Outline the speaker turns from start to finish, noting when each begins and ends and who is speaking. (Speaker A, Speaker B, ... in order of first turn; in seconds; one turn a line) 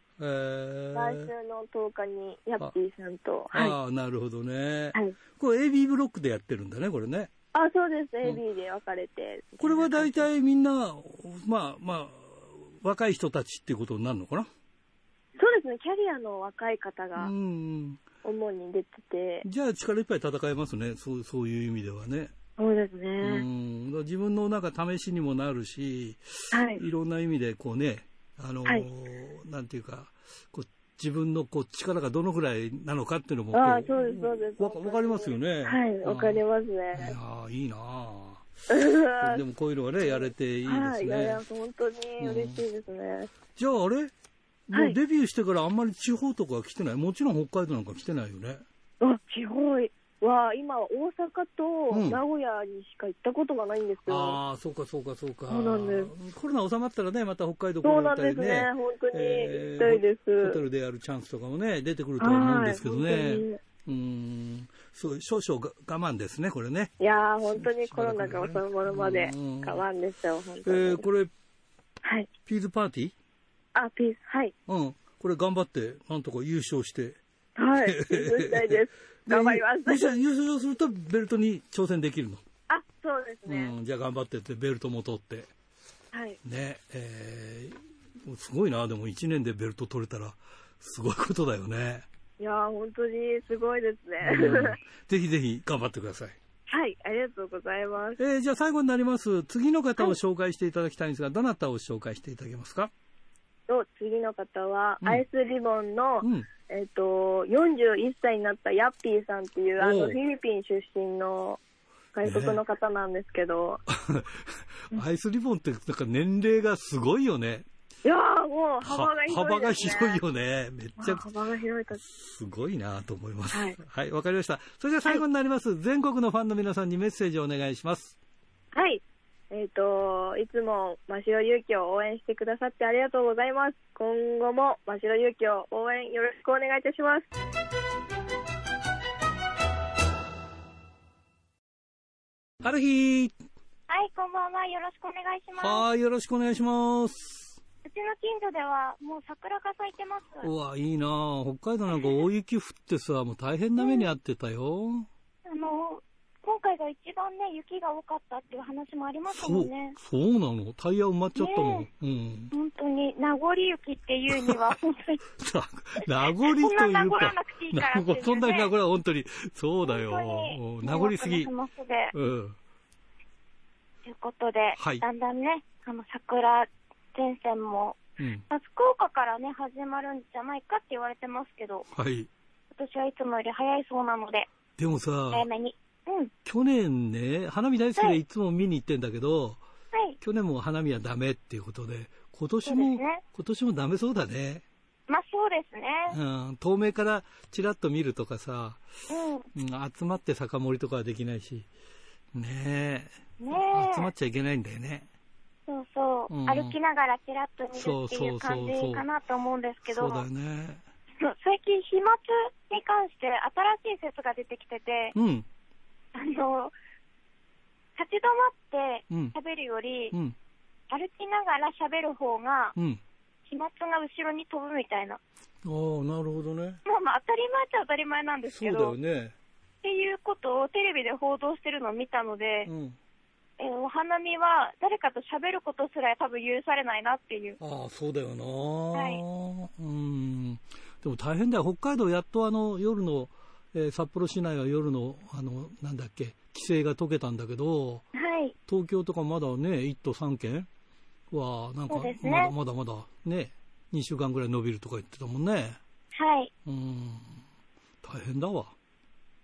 Speaker A: 0.2-1.3
Speaker B: 0.9-3.8
Speaker A: 3.5-7.3
Speaker B: 7.5-10.3
Speaker A: 9.6-14.5
Speaker B: 15.4-17.3
Speaker A: 17.2-18.0
Speaker B: 18.2-19.5
Speaker A: 19.4-22.3
Speaker B: 22.6-23.4
Speaker A: 23.2-36.4
Speaker B: 26.5-26.8
Speaker B: 33.5-37.2
Speaker A: 36.9-38.5
Speaker B: 38.7-39.4
Speaker A: 39.2-41.4
Speaker B: 40.0-43.3
Speaker A: 42.2-42.6
Speaker A: 43.6-44.1
Speaker A: 44.7-48.6
Speaker B: 49.0-54.4
Speaker A: 51.9-52.2
Speaker A: 54.1-66.9
Speaker B: 55.5-56.1
Speaker B: 57.8-60.6
Speaker B: 62.2-63.6
Speaker B: 67.0-71.1
Speaker A: 67.5-69.8
Speaker A: 70.6-71.3
Speaker B: 72.0-72.3
Speaker A: 72.5-73.1
Speaker B: 73.8-74.5
Speaker A: 74.7-77.2
Speaker B: 77.6-80.1
Speaker A: 77.8-82.4
Speaker B: 82.7-83.7
Speaker A: 83.5-85.5
Speaker B: 86.1-86.4
Speaker A: 86.4-92.1
Speaker B: 92.4-94.8
Speaker A: 94.2-96.4
Speaker B: 96.7-98.2
Speaker A: 98.2-102.9
Speaker B: 103.7-111.6
Speaker A: 106.2-106.5
Speaker A: 109.8-110.2
Speaker B: 112.1-113.8
Speaker A: 112.2-112.6
Speaker A: 113.9-117.7
Speaker B: 118.0-120.2
Speaker A: 118.8-121.2
Speaker B: 121.0-122.0
Speaker A: 122.0-128.2
Speaker B: 123.5-123.8
Speaker B: 128.7-137.3
Speaker A: 142.6-143.3
Speaker C: 143.9-145.8
Speaker A: 145.6-147.6
Speaker C: 147.8-150.5
Speaker A: 150.4-155.1
Speaker C: 153.8-154.1
Speaker C: 155.5-160.0
Speaker A: 159.3-162.5
Speaker C: 161.4-161.9
Speaker C: 162.5-165.2
Speaker A: 164.3-164.7
Speaker A: 165.4-171.5
Speaker C: 166.4-168.7
Speaker C: 169.8-172.1
Speaker A: 172.1-172.6
Speaker C: 174.1-181.9
Speaker A: 174.8-175.0
Speaker A: 178.2-178.4
Speaker A: 181.9-182.3
Speaker C: 182.7-184.5
Speaker A: 184.8-185.5
Speaker C: 185.3-186.3
Speaker A: 186.4-189.6
Speaker A: 190.2-194.6
Speaker C: 192.7-193.2
Speaker C: 195.1-196.2
Speaker A: 196.1-198.8
Speaker C: 199.1-199.5
Speaker A: 199.5-201.7
Speaker A: 202.3-205.1
Speaker C: 203.4-204.1
Speaker C: 205.7-210.2
Speaker A: 206.3-206.8
Speaker A: 207.8-209.1
Speaker A: 209.9-210.8
Speaker C: 211.2-215.2
Speaker A: 215.2-215.5
Speaker C: 216.1-216.7
Speaker C: 218.0-220.2
Speaker C: 220.9-222.8
Speaker A: 222.8-223.0
Speaker C: 223.5-225.2
Speaker A: 225.6-226.8
Speaker C: 226.9-228.9
Speaker A: 228.5-229.3
Speaker C: 229.8-232.7
Speaker A: 232.7-233.0
Speaker C: 233.6-237.6
Speaker A: 237.6-248.1
Speaker C: 238.9-239.2
Speaker C: 248.2-248.5
Speaker A: 248.7-250.7
Speaker A: 251.3-255.8
Speaker C: 251.9-252.5
Speaker C: 256.1-256.5
Speaker A: 256.6-257.4
Speaker A: 258.0-258.7